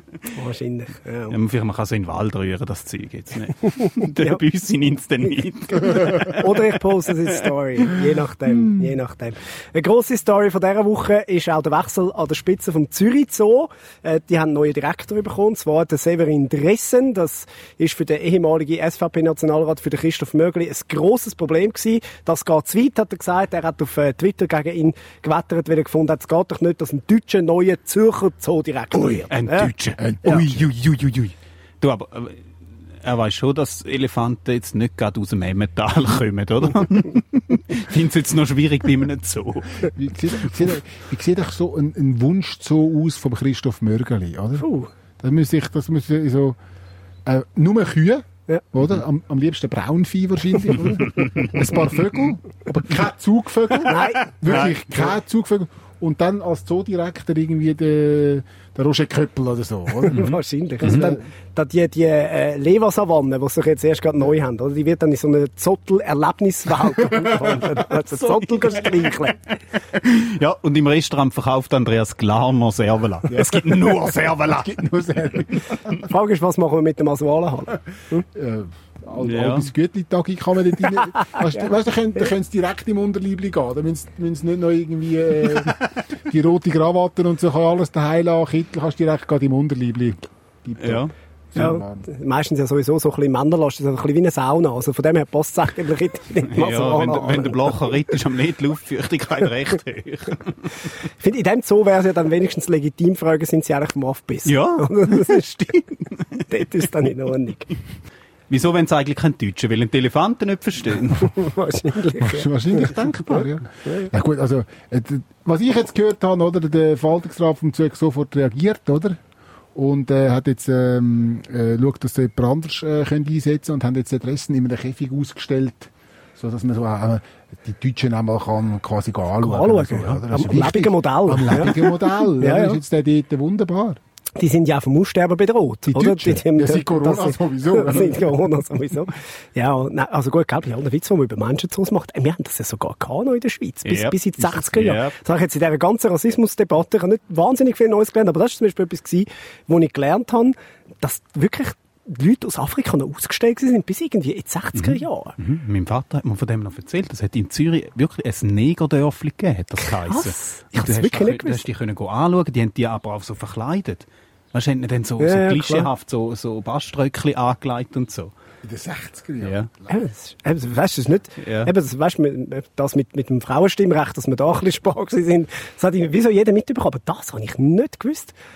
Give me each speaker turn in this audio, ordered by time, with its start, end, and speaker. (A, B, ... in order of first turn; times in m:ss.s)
0:00.3-0:01.4 A
0:01.3-0:06.8 B
0:03.8-0:04.4 A
0:05.2-0:29.7 A
0:29.0-0:29.2 C
0:29.3-0:32.4 B
0:30.0-0:30.7 C
0:33.0-0:39.8 B
0:39.8-0:44.6 C
0:44.6-0:44.9 A
0:45.2-0:46.6 C
0:47.2-1:00.2 C
0:51.2-0:51.5 B
0:53.8-0:55.0 A
1:00.0-1:09.6 A
1:00.1-1:01.1 B
1:00.8-1:01.2 C
1:07.9-1:09.2 B
1:09.9-1:14.8 B
1:13.3-1:16.0 C
1:16.0-1:18.2 A
1:18.3-1:32.0 C
1:19.2-1:19.7 B
1:21.2-1:21.6 A
1:30.8-1:31.1 B
1:31.5-1:37.8 A
1:36.5-1:40.9 B
1:41.2-1:45.9 A
1:44.4-1:45.4 B
1:46.5-1:47.7 A
1:48.5-1:51.4 B
1:51.2-1:54.1 A
1:52.2-1:59.2 C
1:59.7-2:14.0 C
2:09.4-2:12.8 A
2:14.4-2:35.4 A
2:15.9-2:18.4 C
2:23.8-2:25.2 B
2:34.8-2:48.3 B
2:39.8-2:41.6 A
2:45.2-2:45.9 A
2:48.6-2:49.9 C
2:49.4-2:49.7 B
2:49.9-2:58.3 A
2:51.4-2:51.7 B